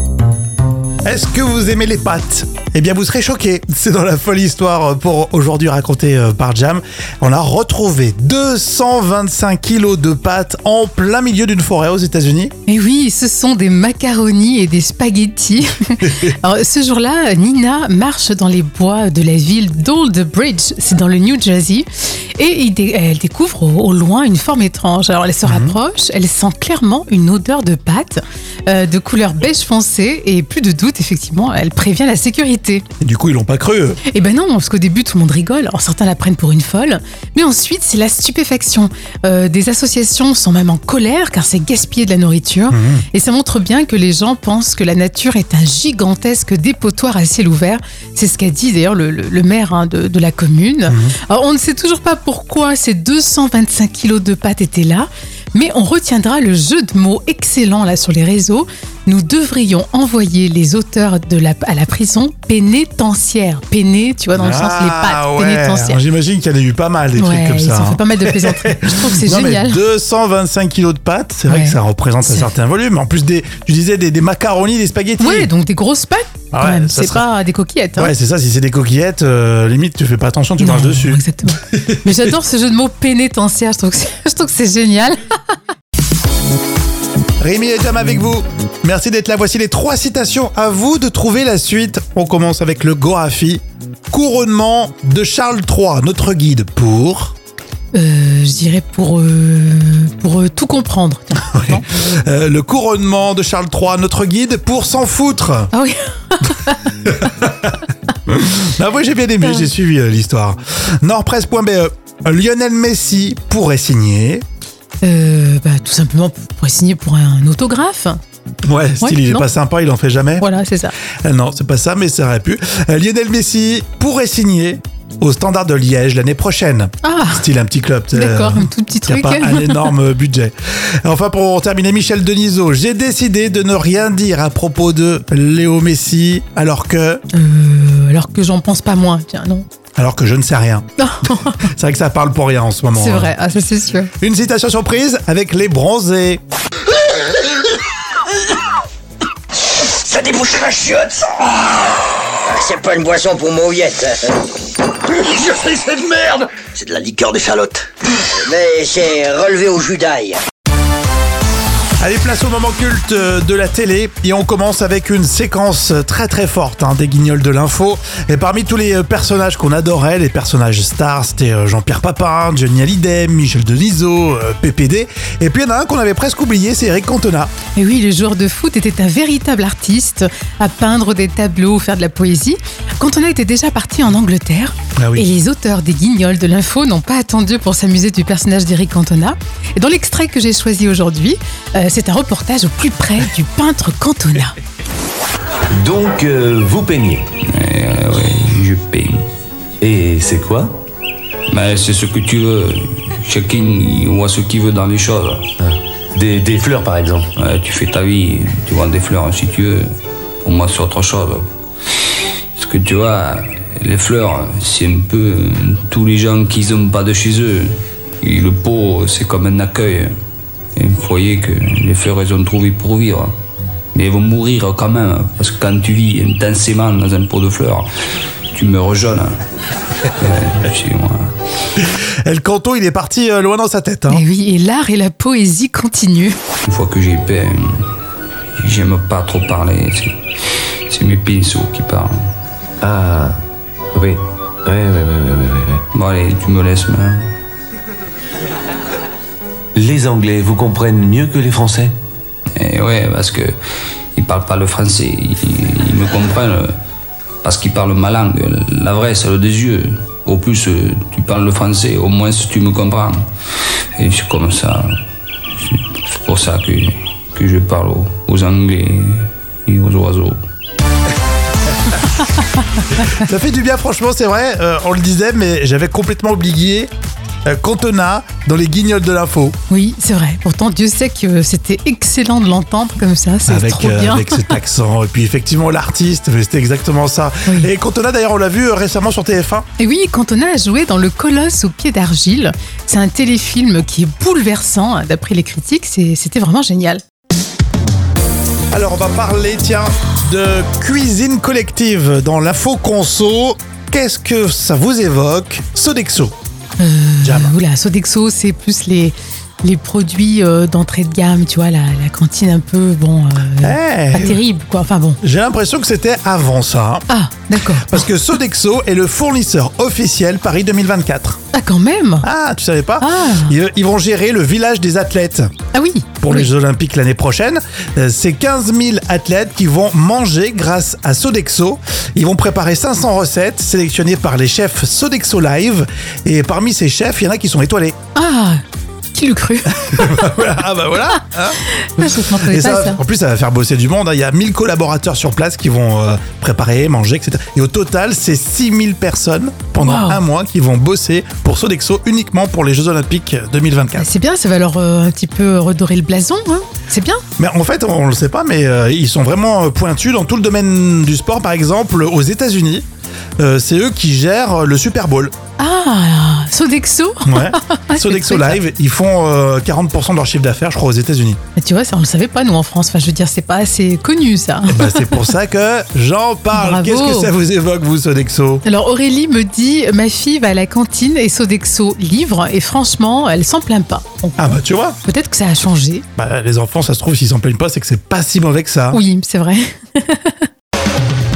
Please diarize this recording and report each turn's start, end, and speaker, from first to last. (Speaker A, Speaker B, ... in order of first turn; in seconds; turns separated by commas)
Speaker A: 1.0-12.5, Speaker B: 12.7-21.9, Speaker B: 22.4-32.8, Speaker A: 25.4-25.8, Speaker A: 33.0-34.0, Speaker B: 34.1-66.0, Speaker A: 42.7-43.0, Speaker A: 50.9-51.1, Speaker A: 64.3-75.5, Speaker B: 67.2-69.8, Speaker B: 71.5-72.5, Speaker B: 75.2-78.1, Speaker A: 76.5-77.2, Speaker A: 78.0-81.2, Speaker B: 80.6-85.3, Speaker A: 87.4-97.3, Speaker B: 97.9-101.8, Speaker A: 101.4-105.7, Speaker B: 105.7-107.0, Speaker A: 107.0-114.4, Speaker B: 109.4-109.7, Speaker B: 115.0-118.2, Speaker A: 118.6-120.5, Speaker B: 119.0-119.5, Speaker B: 120.4-120.9, Speaker A: 121.2-137.2, Speaker B: 127.0-127.5, Speaker B: 128.1-129.9, Speaker B: 137.3-139.6, Speaker A: 140.0-140.8, Speaker B: 141.0-141.7, Speaker A: 141.5-143.3, Speaker B: 142.9-144.1, Speaker A: 144.2-146.4, Speaker C: 149.8-154.5, Speaker C: 155.0-160.4, Speaker A: 162.0-177.5, Speaker B: 177.7-194.6, Speaker A: 185.0-185.3, Speaker D: 195.7-197.3, Speaker E: 197.5-199.2, Speaker D: 199.8-200.7, Speaker E: 201.5-205.4, Speaker D: 205.6-207.3, Speaker E: 207.4-209.9, Speaker E: 210.4-211.4, Speaker E: 212.0-220.1, Speaker E: 220.8-223.3, Speaker E: 223.9-227.9, Speaker E: 228.5-229.3, Speaker E: 230.1-231.3, Speaker A: 231.8-234.2, Speaker B: 234.1-236.4, Speaker E: 236.6-237.8, Speaker E: 238.6-240.2, Speaker E: 240.9-242.1, Speaker D: 242.8-243.4, Speaker D: 243.9-245.8, Speaker E: 245.9-247.2, Speaker D: 249.7-251.9, Speaker E: 252.5-253.5, Speaker E: 254.1-256.7, Speaker E: 257.4-263.2, Speaker E: 264.0-264.9, Speaker E: 265.5-270.4, Speaker A: 273.1-276.9, Speaker A: 277.4-279.5, Speaker B: 279.7-284.6, Speaker A: 283.5-289.6, Speaker B: 289.8-297.0, Speaker A: 298.7-306.3, Speaker B: 306.8-315.2, Speaker A: 307.2-307.5, Speaker A: 313.6-314.4, Speaker A: 315.2-317.1, Speaker B: 317.1-318.1, Speaker A: 317.8-321.4, Speaker B: 321.5-322.2, Speaker A: 322.2-325.5, Speaker B: 323.0-323.5, Speaker B: 325.7-326.5, Speaker A: 326.2-337.9, Speaker B: 338.1-338.6, Speaker B: 339.1-340.2, Speaker A: 339.9-354.1, Speaker B: 341.7-343.0, Speaker B: 349.8-350.2, Speaker B: 354.0-357.2, Speaker A: 357.4-362.8, Speaker A: 363.4-365.3, Speaker B: 365.6-368.6, Speaker A: 367.2-371.4, Speaker B: 371.6-375.3, Speaker A: 374.7-378.6, Speaker B: 376.5-377.3, Speaker B: 378.6-384.4, Speaker A: 384.4-385.0, Speaker B: 385.0-386.0, Speaker A: 386.1-389.0, Speaker B: 388.9-390.5